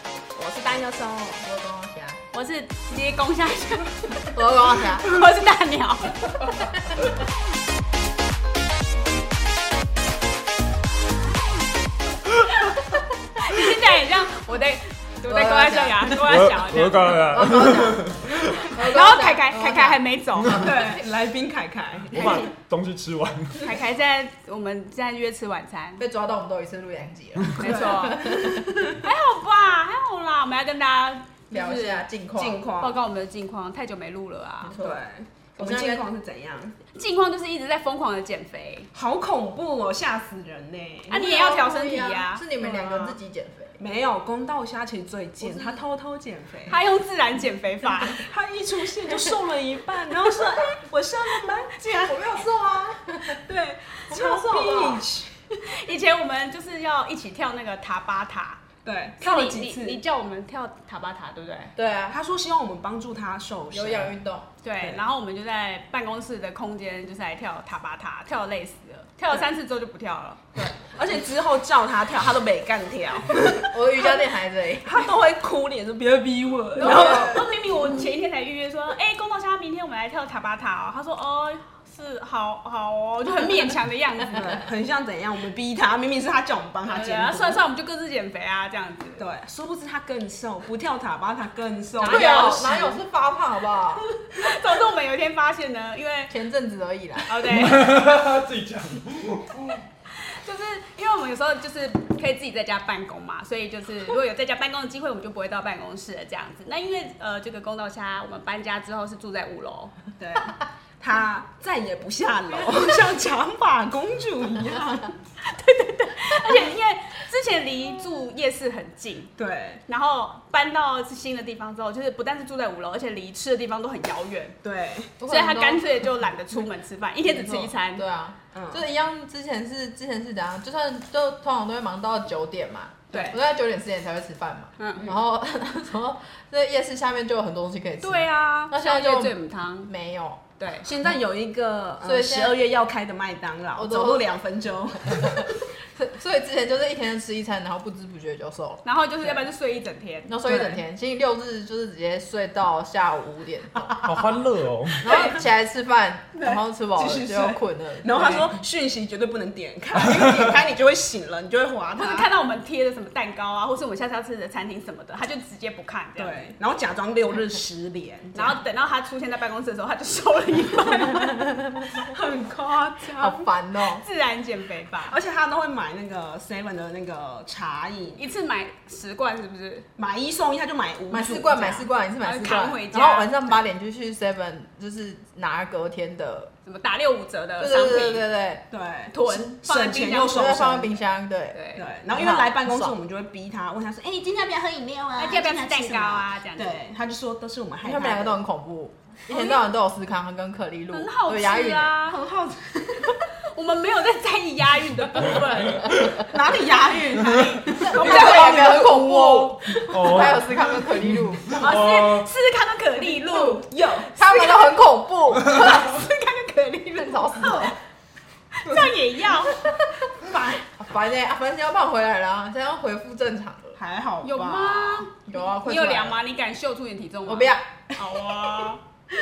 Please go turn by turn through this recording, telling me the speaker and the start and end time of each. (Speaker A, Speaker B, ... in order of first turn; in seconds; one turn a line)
Speaker A: 0.3-1.5
Speaker B: 1.4-2.2
Speaker C: 2.3-3.9
Speaker B: 4.3-5.1
Speaker C: 4.9-6.4
Speaker C: 13.4-17.2
Speaker B: 15.2-16.2
Speaker D: 16.2-18.7
Speaker B: 17.3-20.9
Speaker C: 18.8-20.7
Speaker A: 20.5-22.5
Speaker D: 22.1-23.6
Speaker C: 23.6-26.0
Speaker B: 26.0-28.6
Speaker C: 27.5-28.3
Speaker A: 27.6-29.0
Speaker C: 29.0-32.1
Speaker B: 31.5-32.6
Speaker A: 32.4-33.0
Speaker C: 32.8-34.8
Speaker B: 34.6-35.0
Speaker A: 34.8-36.8
Speaker B: 35.6-36.1
Speaker C: 36.9-38.9
Speaker A: 38.9-41.3
Speaker C: 41.1-42.5
Speaker B: 41.1-43.8
Speaker A: 42.6-43.2
Speaker A: 43.8-46.8
Speaker C: 46.7-48.3
Speaker A: 47.8-52.4
Speaker B: 52.0-53.4
Speaker A: 53.5-55.3
Speaker B: 54.1-55.0
Speaker C: 55.6-58.6
Speaker A: 58.9-60.0
Speaker C: 59.2-61.7
Speaker B: 61.8-62.2
Speaker A: 62.1-64.2
Speaker B: 63.7-64.5
Speaker C: 64.6-70.4
Speaker A: 70.5-74.2
Speaker B: 73.7-75.0
Speaker A: 74.8-77.5
Speaker C: 76.8-84.6
Speaker B: 76.8-77.4
Speaker A: 84.4-87.6
Speaker C: 86.9-89.3
Speaker A: 89.2-92.6
Speaker C: 92.0-93.0
Speaker B: 92.0-94.0
Speaker C: 94.2-96.3
Speaker B: 96.3-97.4
Speaker C: 97.3-98.1
Speaker D: 97.5-99.8
Speaker C: 100.2-110.0
Speaker A: 110.2-115.1
Speaker C: 115.4-119.3
Speaker A: 119.4-119.8
Speaker C: 119.9-124.6
Speaker A: 124.6-125.1
Speaker B: 125.2-126.7
Speaker C: 125.3-128.0
Speaker B: 127.3-140.4
Speaker A: 128.5-128.9
Speaker A: 133.1-133.4
Speaker C: 134.8-135.1
Speaker C: 138.0-139.9
Speaker C: 140.6-140.9
Speaker A: 140.8-145.6
Speaker B: 142.0-142.6
Speaker B: 143.8-144.3
Speaker B: 145.9-148.8
Speaker C: 148.8-150.4
Speaker B: 150.3-154.3
Speaker A: 150.4-150.8
Speaker D: 153.9-155.1
Speaker B: 155.0-158.5
Speaker A: 155.1-155.4
Speaker A: 156.3-162.3
Speaker C: 162.0-166.5
Speaker A: 166.2-168.6
Speaker C: 168.3-171.5
Speaker A: 171.9-173.4
Speaker B: 173.2-174.0
Speaker C: 173.8-175.2
Speaker A: 175.1-178.2
Speaker C: 178.2-179.9
Speaker A: 180.0-181.9
Speaker B: 181.1-186.5
Speaker C: 182.2-183.6
Speaker C: 186.7-188.3
Speaker B: 187.6-188.6
Speaker A: 188.7-191.0
Speaker C: 189.1-190.4
Speaker B: 190.3-192.9
Speaker C: 191.5-191.8
Speaker A: 191.8-198.4
Speaker C: 195.2-196.8
Speaker B: 197.8-201.9
Speaker C: 199.3-199.6
Speaker C: 200.9-202.2
Speaker A: 202.1-203.2
Speaker C: 203.5-206.1
Speaker A: 206.0-208.3
Speaker C: 207.8-208.9
Speaker B: 207.8-211.7
Speaker D: 208.0-212.3
Speaker C: 211.6-214.8
Speaker B: 213.2-213.6
Speaker A: 213.6-214.1
Speaker B: 214.2-215.9
Speaker C: 215.5-217.8
Speaker B: 216.9-217.8
Speaker C: 218.5-219.6
Speaker B: 219.6-220.0
Speaker B: 220.7-223.8
Speaker A: 223.8-225.1
Speaker C: 224.2-228.8
Speaker B: 225.2-226.2
Speaker B: 227.3-227.6